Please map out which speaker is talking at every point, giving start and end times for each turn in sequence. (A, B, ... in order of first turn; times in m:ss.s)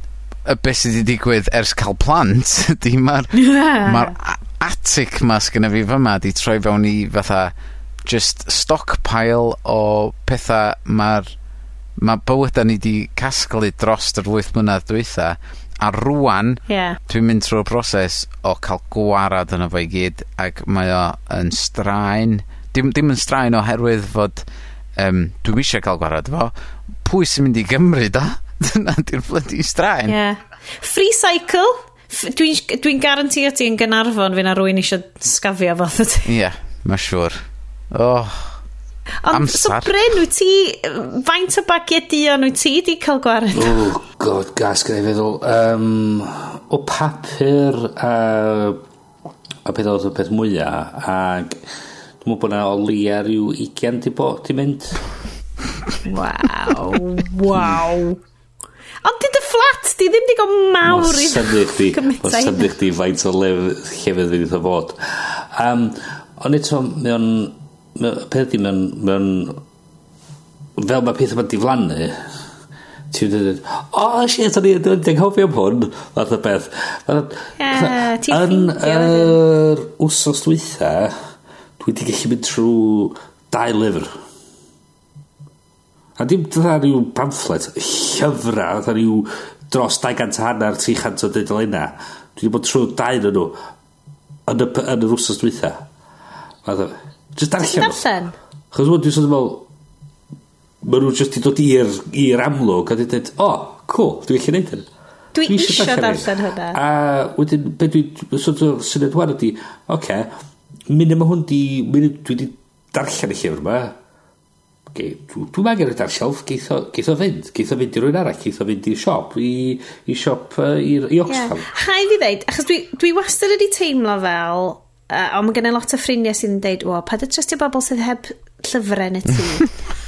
0:00.4-0:07.5 A
0:03.4-0:04.1 B
0:08.0-0:11.3 A
0:12.0-0:24.4 A
0:16.7-0:17.0 B
0:25.0-0:26.5 A
0:27.0-0:30.2 A
0:30.1-0:36.3 B
0:36.3-0:37.4 A
0:37.9-0:38.6 A
0:39.2-0:43.8 B
0:39.3-0:39.9 A
0:43.6-0:48.8 C
0:49.6-0:51.6 C
0:52.2-0:55.0 C
0:56.0-0:58.2 B
0:59.0-1:02.7 B
1:00.8-1:09.6 C
1:10.8-1:12.2 C
1:13.1-1:21.1 C
1:17.6-1:19.4 B
1:21.8-1:24.1 C
1:26.2-1:33.6 C
1:34.5-1:35.8 C
1:36.6-1:38.0 C
1:37.6-1:38.4 B
1:38.7-1:39.7 C
1:40.8-1:44.9 C
1:45.3-1:46.8 B
1:45.5-1:50.3 C
1:50.9-1:54.0 C
1:54.9-2:01.7 C
2:01.3-2:09.7 B